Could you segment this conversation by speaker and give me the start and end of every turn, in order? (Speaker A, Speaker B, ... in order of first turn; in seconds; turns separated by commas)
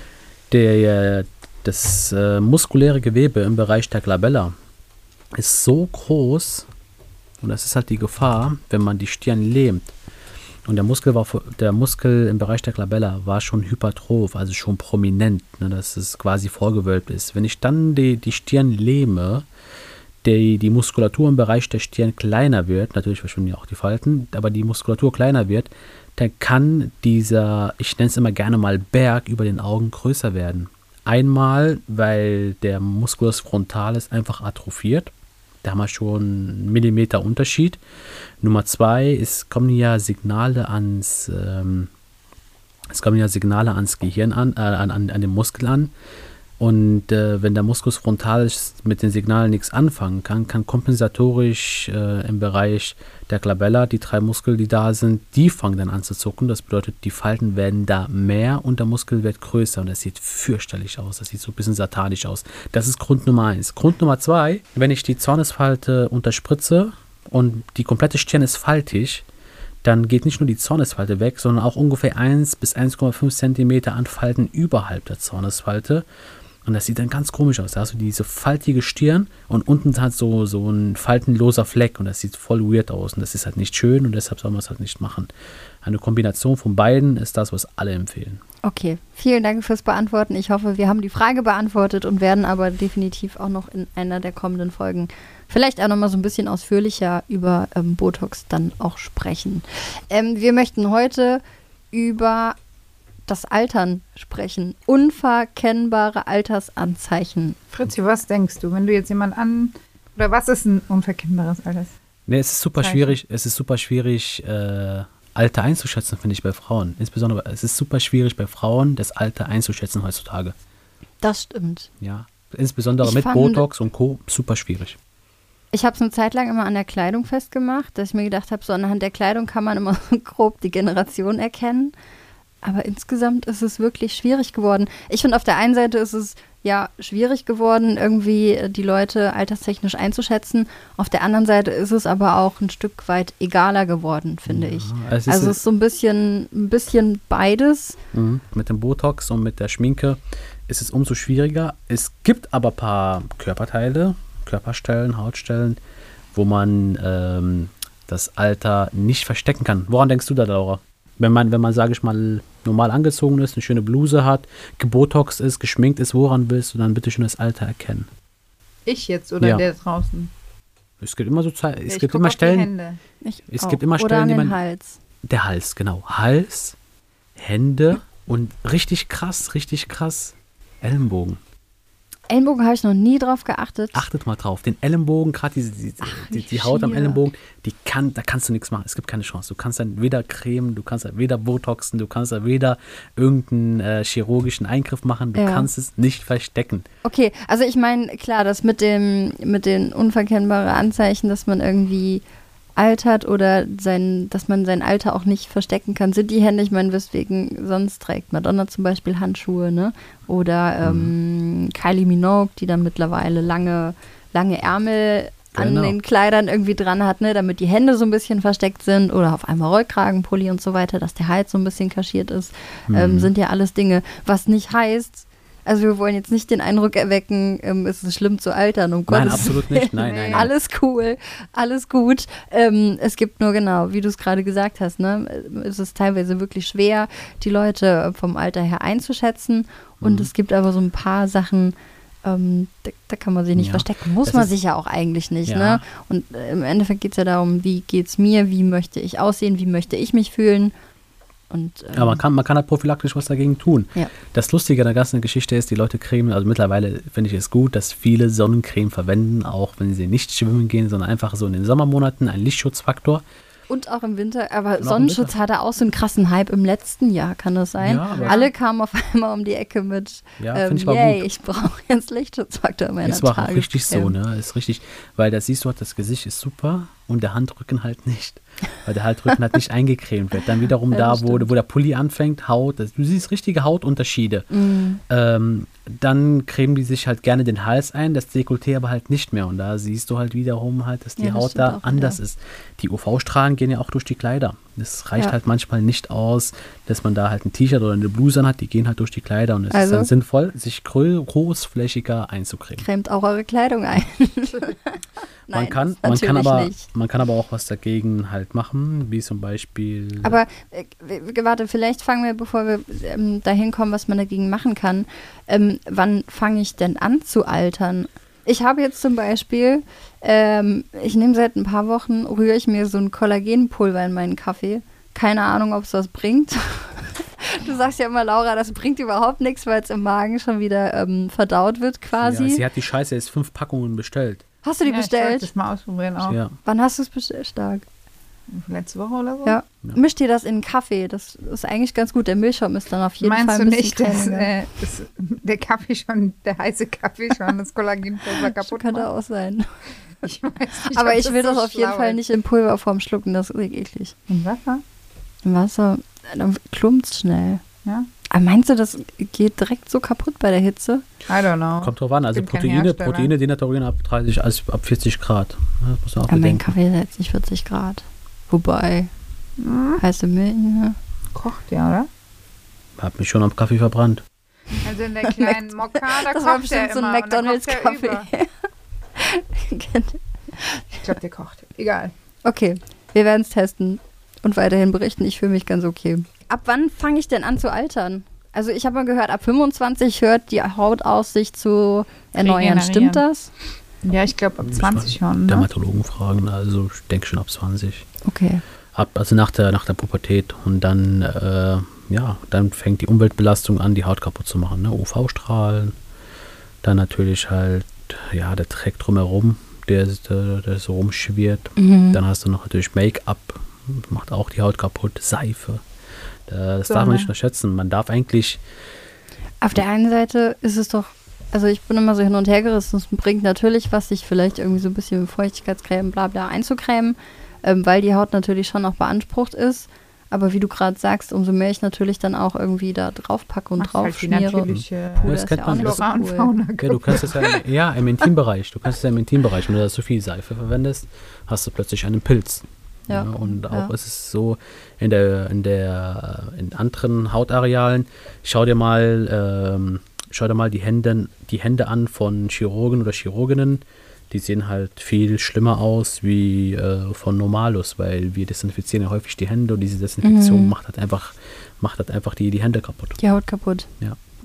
Speaker A: 0.5-4.5, Speaker A: 5.3-6.7, Speaker A: 7.4-9.9, Speaker A: 10.7-19.5, Speaker A: 20.2-35.1, Speaker A: 35.6-37.8, Speaker A: 38.4-41.9, Speaker A: 42.9-45.9, Speaker A: 46.6-69.2, Speaker A: 69.8-76.1, Speaker A: 76.7-85.3, Speaker A: 85.8-88.4, Speaker B: 88.6-102.6, Speaker B: 103.3-107.6, Speaker C: 107.7-111.9, Speaker A: 112.3-120.6, Speaker C: 112.8-113.1, Speaker B: 121.2-121.9, Speaker A: 122.0-125.0, Speaker B: 123.0-123.7, Speaker B: 125.7-131.9, Speaker B: 132.6-148.0, Speaker A: 144.5-145.6, Speaker A: 148.1-155.8, Speaker A: 156.3-168.1, Speaker C: 168.9-170.3, Speaker A: 171.0-172.7, Speaker C: 171.9-173.0, Speaker B: 173.2-175.0, Speaker A: 173.5-174.6, Speaker A: 175.2-176.8, Speaker A: 177.4-181.4, Speaker B: 182.3-184.1, Speaker A: 183.9-196.9, Speaker B: 186.0-187.2, Speaker B: 195.3-195.7, Speaker B: 197.0-202.2, Speaker B: 202.8-250.7, Speaker A: 210.8-211.1, Speaker A: 215.6-216.0, Speaker A: 222.9-223.3, Speaker A: 229.1-230.5, Speaker C: 229.9-230.5, Speaker A: 240.0-240.3, Speaker A: 243.6-244.5, Speaker A: 245.5-245.8, Speaker B: 251.5-252.2, Speaker A: 251.9-263.2, Speaker B: 263.7-274.1, Speaker A: 264.8-265.3, Speaker A: 267.8-268.4, Speaker C: 268.1-268.5, Speaker A: 270.4-271.3, Speaker A: 273.0-284.5, Speaker B: 280.9-281.5, Speaker B: 284.5-285.0, Speaker A: 285.1-302.9, Speaker B: 291.2-292.2, Speaker B: 299.7-300.1, Speaker B: 302.8-306.9, Speaker A: 305.5-310.4, Speaker B: 310.2-332.6, Speaker A: 332.2-334.4, Speaker B: 334.6-335.5, Speaker C: 334.9-336.4, Speaker A: 336.2-336.6, Speaker B: 336.6-337.9, Speaker C: 338.5-339.6, Speaker B: 339.4-344.5, Speaker C: 343.2-349.1, Speaker B: 348.3-349.7, Speaker C: 350.2-352.2, Speaker B: 350.9-354.1, Speaker C: 354.3-354.8, Speaker B: 355.4-357.6, Speaker B: 358.3-361.1, Speaker C: 361.3-363.3, Speaker A: 361.8-366.7, Speaker B: 366.3-369.1, Speaker C: 369.6-370.0, Speaker B: 370.0-371.0, Speaker C: 371.3-372.1, Speaker A: 373.0-374.2, Speaker C: 374.8-378.3, Speaker B: 375.2-378.5, Speaker B: 379.2-381.0, Speaker C: 381.0-382.1, Speaker B: 382.4-393.5, Speaker C: 392.4-393.2, Speaker C: 394.0-395.7, Speaker A: 394.6-398.1, Speaker B: 398.2-398.6, Speaker A: 398.9-405.9, Speaker A: 406.8-415.8, Speaker B: 411.8-412.2, Speaker A: 416.5-418.6, Speaker C: 416.9-417.3, Speaker B: 419.6-434.7, Speaker C: 433.8-437.6, Speaker A: 434.7-436.0, Speaker B: 435.2-436.5, Speaker A: 436.8-463.2, Speaker B: 443.1-443.9, Speaker B: 460.2-460.7, Speaker B: 463.2-463.9